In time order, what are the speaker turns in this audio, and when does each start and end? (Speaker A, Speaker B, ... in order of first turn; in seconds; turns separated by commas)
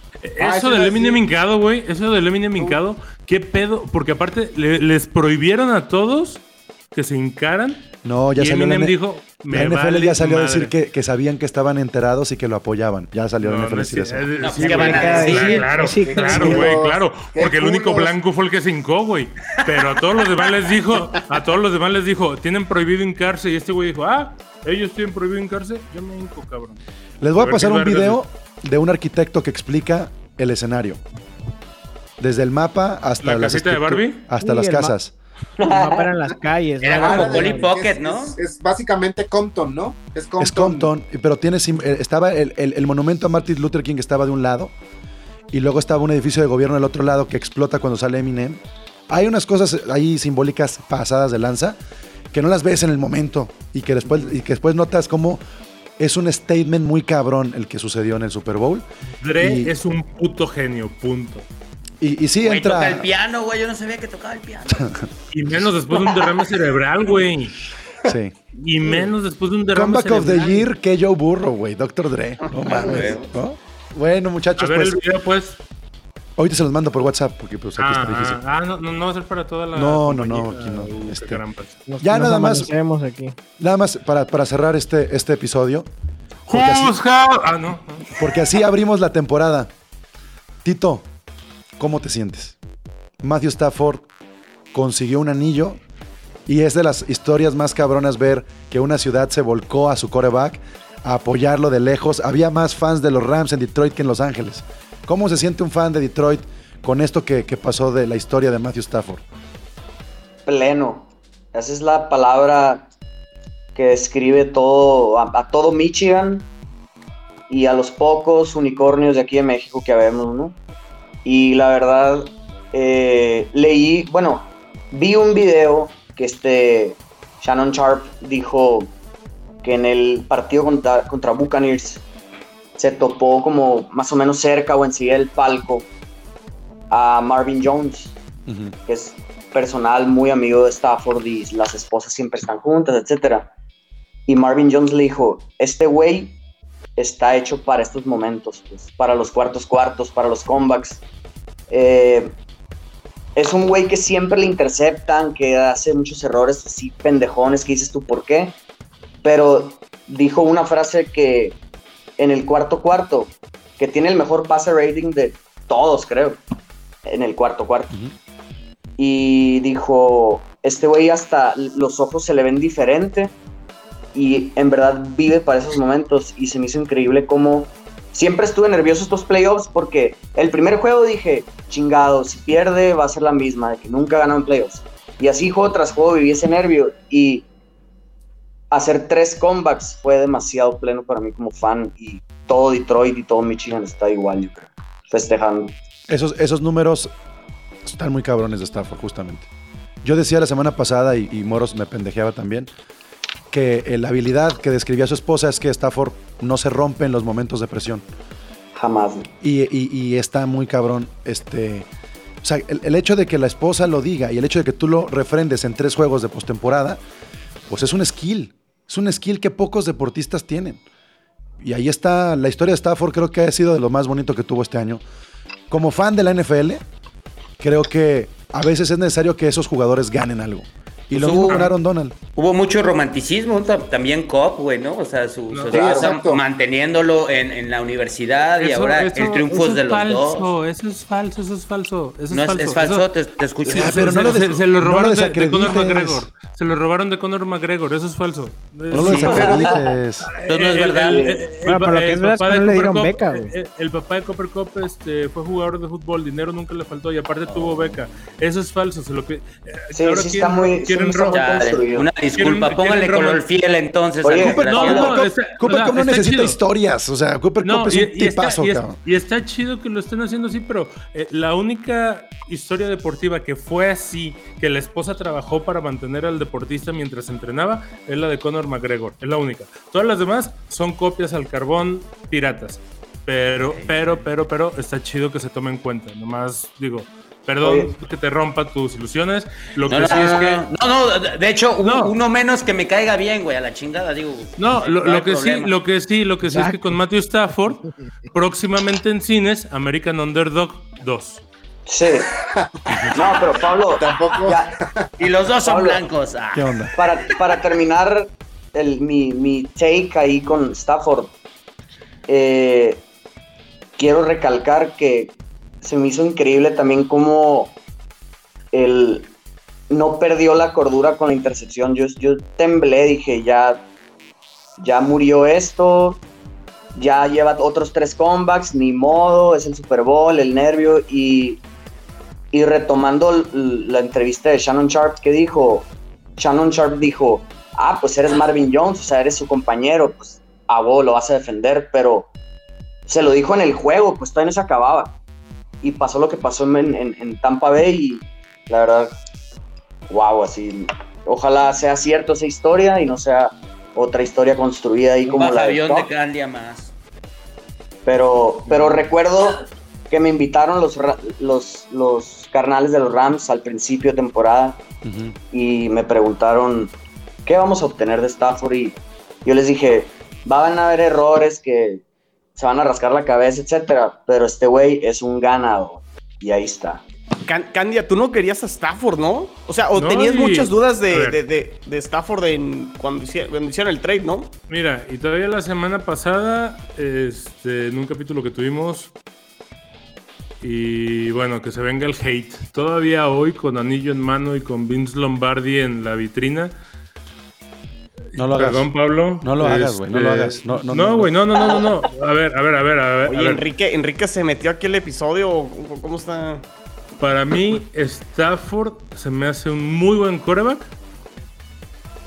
Speaker A: 0.2-10.7, Speaker B: 0.4-1.2, Speaker C: 8.0-9.0, Speaker C: 9.5-14.4, Speaker A: 13.4-26.8, Speaker D: 14.4-15.7, Speaker E: 14.6-16.6, Speaker B: 15.6-18.1, Speaker C: 16.3-16.7, Speaker D: 19.5-20.6, Speaker C: 27.2-31.0, Speaker A: 27.4-28.2, Speaker C: 32.2-35.1, Speaker A: 33.2-34.2, Speaker E: 34.4-34.9, Speaker F: 35.6-36.1, Speaker E: 35.6-37.7, Speaker D: 36.8-38.4, Speaker B: 36.9-40.9, Speaker C: 40.4-44.7, Speaker C: 45.5-51.8, Speaker C: 52.3-55.4, Speaker C: 56.0-58.9, Speaker A: 59.2-61.5, Speaker C: 59.4-59.7, Speaker C: 62.0-63.1, Speaker D: 62.4-65.0, Speaker C: 64.7-65.0, Speaker A: 65.3-67.6, Speaker C: 68.0-68.3, Speaker A: 68.5-70.7, Speaker C: 69.7-75.0, Speaker D: 72.6-73.3, Speaker A: 74.6-75.6, Speaker C: 76.4-78.4, Speaker A: 77.8-81.8, Speaker C: 79.7-81.4, Speaker E: 81.9-83.3, Speaker C: 82.0-82.7, Speaker C: 83.6-85.9, Speaker A: 86.5-88.0, Speaker C: 86.5-87.0, Speaker C: 88.2-89.7, Speaker C: 90.6-91.1, Speaker C: 91.8-92.6, Speaker C: 93.2-94.1, Speaker C: 94.7-95.8, Speaker C: 96.5-109.2, Speaker F: 110.5-112.9, Speaker F: 113.7-116.5, Speaker F: 117.5-120.6, Speaker F: 121.2-128.9, Speaker F: 129.6-132.0, Speaker F: 132.8-135.9, Speaker F: 136.9-138.2, Speaker C: 138.5-138.7, Speaker F: 138.8-143.5, Speaker F: 144.3-146.4, Speaker F: 147.0-151.0, Speaker F: 151.7-152.3, Speaker F: 153.3-158.6, Speaker F: 159.2-161.6, Speaker F: 162.2-166.4, Speaker F: 167.0-167.9, Speaker F: 169.0-173.3, Speaker F: 174.1-187.5, Speaker F: 188.7-195.7, Speaker C: 196.1-197.1, Speaker C: 197.8-199.5, Speaker C: 200.0-202.7, Speaker C: 203.5-208.1, Speaker F: 208.7-209.3, Speaker C: 209.4-211.9, Speaker C: 212.4-217.0, Speaker C: 217.7-220.8, Speaker C: 221.6-225.0, Speaker C: 225.7-226.8, Speaker C: 227.6-232.1, Speaker D: 231.1-231.7, Speaker D: 232.3-240.5, Speaker A: 235.5-235.8, Speaker F: 235.7-236.2, Speaker B: 235.7-236.4, Speaker A: 238.6-243.1, Speaker D: 242.3-244.4, Speaker C: 243.7-246.3, Speaker A: 243.7-261.8, Speaker C: 248.9-250.3, Speaker D: 248.9-249.6, Speaker F: 249.3-249.8, Speaker D: 250.4-251.4, Speaker F: 251.0-251.4, Speaker E: 251.6-253.5, Speaker D: 257.5-258.0, Speaker F: 259.9-262.1, Speaker D: 261.3-265.1, Speaker A: 262.3-263.4, Speaker F: 264.2-265.2, Speaker C: 264.4-269.0, Speaker A: 264.5-266.6, Speaker A: 267.6-290.6, Speaker D: 283.6-284.2, Speaker F: 287.6-287.9, Speaker D: 289.9-295.7, Speaker A: 291.8-292.1, Speaker A: 294.6-301.4, Speaker E: 296.5-296.8, Speaker F: 301.9-302.3, Speaker B: 302.4-303.1, Speaker F: 303.0-304.7, Speaker B: 303.9-305.1, Speaker D: 305.2-306.8, Speaker F: 305.6-306.0, Speaker C: 306.5-306.9, Speaker F: 306.9-311.3, Speaker F: 312.3-313.0, Speaker F: 314.0-317.8, Speaker F: 318.7-319.3, Speaker F: 319.9-323.9, Speaker F: 324.8-326.2, Speaker F: 326.9-331.6, Speaker F: 332.5-342.3, Speaker F: 343.1-345.2, Speaker F: 345.8-349.2, Speaker F: 350.1-356.1, Speaker D: 355.2-356.9, Speaker F: 358.0-364.8, Speaker C: 365.0-365.4, Speaker F: 365.5-366.9, Speaker F: 367.4-372.0, Speaker F: 372.6-377.0, Speaker G: 377.4-384.5, Speaker A: 379.9-381.4, Speaker A: 384.7-389.1, Speaker A: 390.6-396.7, Speaker A: 398.3-403.6, Speaker C: 398.3-401.4, Speaker F: 401.6-401.9, Speaker G: 403.2-406.6, Speaker A: 407.2-410.9